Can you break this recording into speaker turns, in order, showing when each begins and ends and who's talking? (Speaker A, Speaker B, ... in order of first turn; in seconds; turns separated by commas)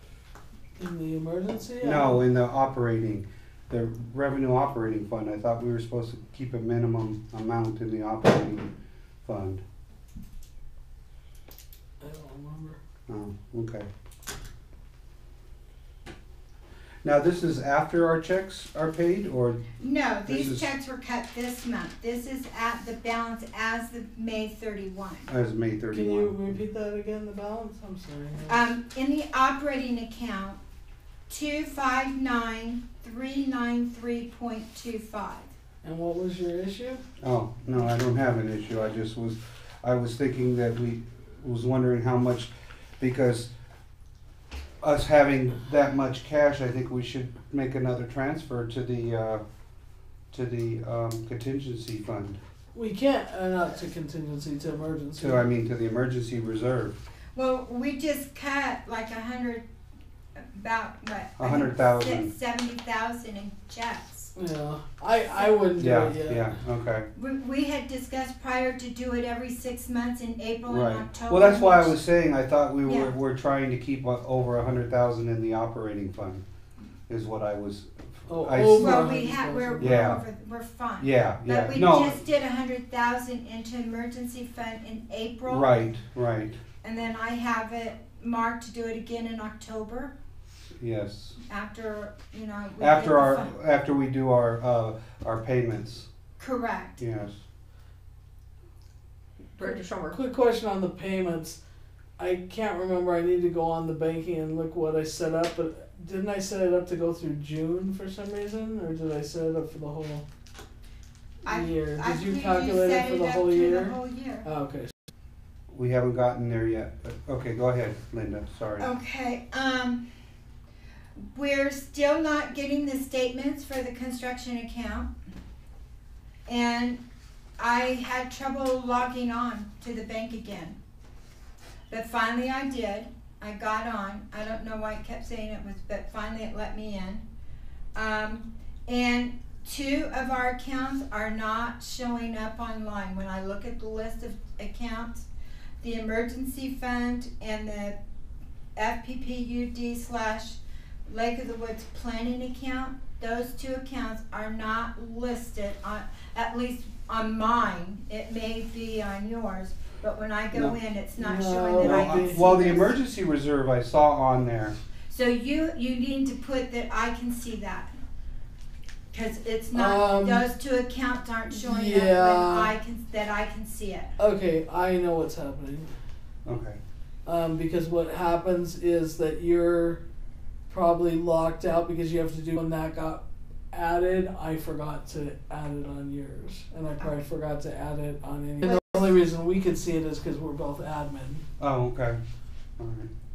Speaker A: 0.8-2.2, Speaker B: 1.8-8.7, Speaker B: 9.2-9.6, Speaker A: 12.0-12.8, Speaker B: 13.1-13.9, Speaker B: 17.0-20.6, Speaker C: 19.8-25.3, Speaker B: 25.3-26.5, Speaker A: 25.9-28.6, Speaker C: 28.5-30.6, Speaker C: 31.3-35.5, Speaker A: 35.8-37.0, Speaker B: 37.2-43.5, Speaker B: 44.8-49.4, Speaker B: 50.3-52.4, Speaker A: 52.7-55.4, Speaker B: 55.2-57.0, Speaker C: 57.3-59.6, Speaker C: 60.4-64.3, Speaker B: 61.4-62.3, Speaker A: 64.3-66.5, Speaker B: 65.8-67.1, Speaker C: 67.1-72.0, Speaker B: 70.7-76.4, Speaker C: 72.8-73.1, Speaker B: 77.1-79.0, Speaker A: 78.3-80.1, Speaker C: 78.8-85.7, Speaker B: 79.8-80.2, Speaker B: 81.0-82.2, Speaker B: 85.5-86.5, Speaker C: 86.8-90.1, Speaker B: 90.8-91.4, Speaker C: 91.5-93.5, Speaker B: 92.8-96.1, Speaker C: 96.4-97.0, Speaker B: 97.0-97.4, Speaker C: 99.6-99.9, Speaker A: 99.6-101.6, Speaker A: 102.2-110.2, Speaker C: 111.4-114.5, Speaker A: 111.5-114.9, Speaker B: 115.7-118.9, Speaker C: 118.8-120.0, Speaker C: 121.2-125.1, Speaker C: 126.5-127.0, Speaker C: 127.6-130.8, Speaker C: 131.9-137.2, Speaker C: 137.9-145.3, Speaker C: 145.8-148.0, Speaker C: 148.8-162.9, Speaker A: 161.2-162.7, Speaker B: 161.8-164.7, Speaker C: 165.1-167.9, Speaker C: 169.1-174.1, Speaker A: 169.7-170.5, Speaker A: 171.5-172.7, Speaker A: 174.2-175.9, Speaker B: 176.4-176.8, Speaker A: 177.2-180.0, Speaker A: 180.7-191.4, Speaker C: 188.6-189.1, Speaker B: 191.6-192.2, Speaker B: 192.8-193.1